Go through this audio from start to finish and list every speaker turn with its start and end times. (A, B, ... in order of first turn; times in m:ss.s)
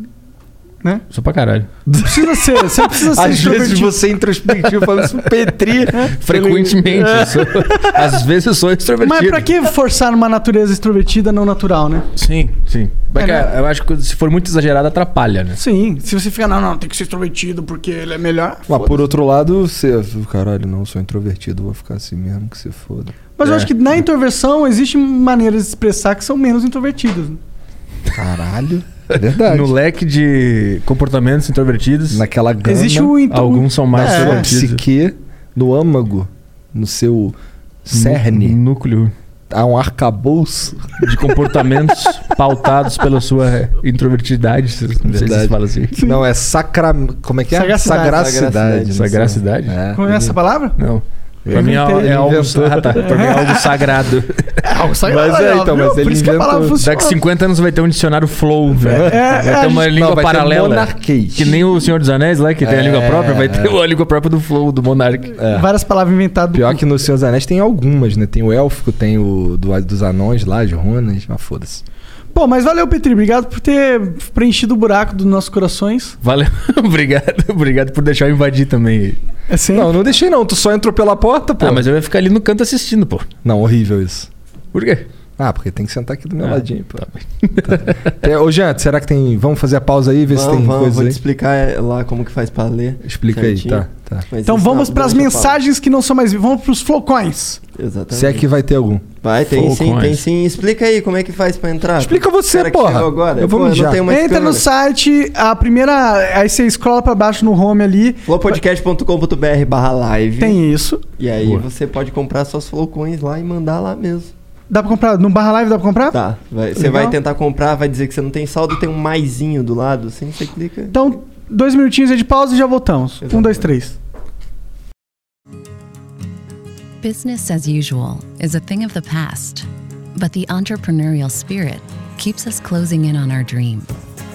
0:01.1-0:01.7 A
0:01.9-0:07.4 B
0:02.0-0:04.0 C
0:06.1-0:09.5 A
0:09.0-0:12.1 C
0:12.2-0:15.6 A
0:13.2-0:13.5 C
0:15.6-0:19.0 C
0:18.7-0:23.2 B
0:23.4-0:27.4 C
0:23.4-0:23.7 A
0:28.2-0:29.7 B
0:29.4-0:32.2 A
0:32.1-0:33.2 B
0:32.7-0:34.5 C
0:33.2-0:34.8 A
0:33.9-0:38.6 B
0:37.9-0:39.1 A
0:39.5-0:41.0 B
0:41.0-0:46.0 A
0:45.0-0:50.4 B
0:47.5-0:48.3 C
0:48.0-0:49.2 D
0:48.9-0:49.8 A
0:50.0-0:50.8 C
0:50.8-0:54.6 A
0:51.5-0:53.1 B
0:51.5-0:52.3 C
0:53.0-0:53.6 C
0:54.6-0:57.2 C
0:55.0-0:56.8 B
0:56.8-1:05.4 A
0:58.8-0:59.9 C
0:59.9-1:01.6 B
1:02.6-1:03.8 B
1:05.4-1:05.7 B
1:05.5-1:06.8 C
1:06.5-1:11.8 B
1:12.3-1:16.2 C
1:16.2-1:19.2 A
1:19.5-1:19.9 C
1:19.7-1:21.9 B
1:21.6-1:23.3 A
1:23.4-1:24.3 B
1:24.7-1:25.1 A
1:25.4-1:27.0 B
1:26.4-1:28.0 A
1:27.6-1:31.2 B
1:30.3-1:35.6 D
1:33.0-1:34.3 B
1:34.5-1:37.6 C
1:37.8-1:38.5 D
1:38.1-1:39.0 B
1:39.2-1:44.6 D
1:39.5-1:40.2 A
1:42.0-1:44.0 B
1:44.1-1:48.6 C
1:48.3-1:50.6 D
1:50.4-1:51.0 C
1:51.2-1:54.3 D
1:54.7-1:56.2 C
1:56.1-2:00.9 D
1:56.8-1:57.2 C
2:00.9-2:04.0 C
2:03.2-2:03.7 D
2:07.0-2:13.9 E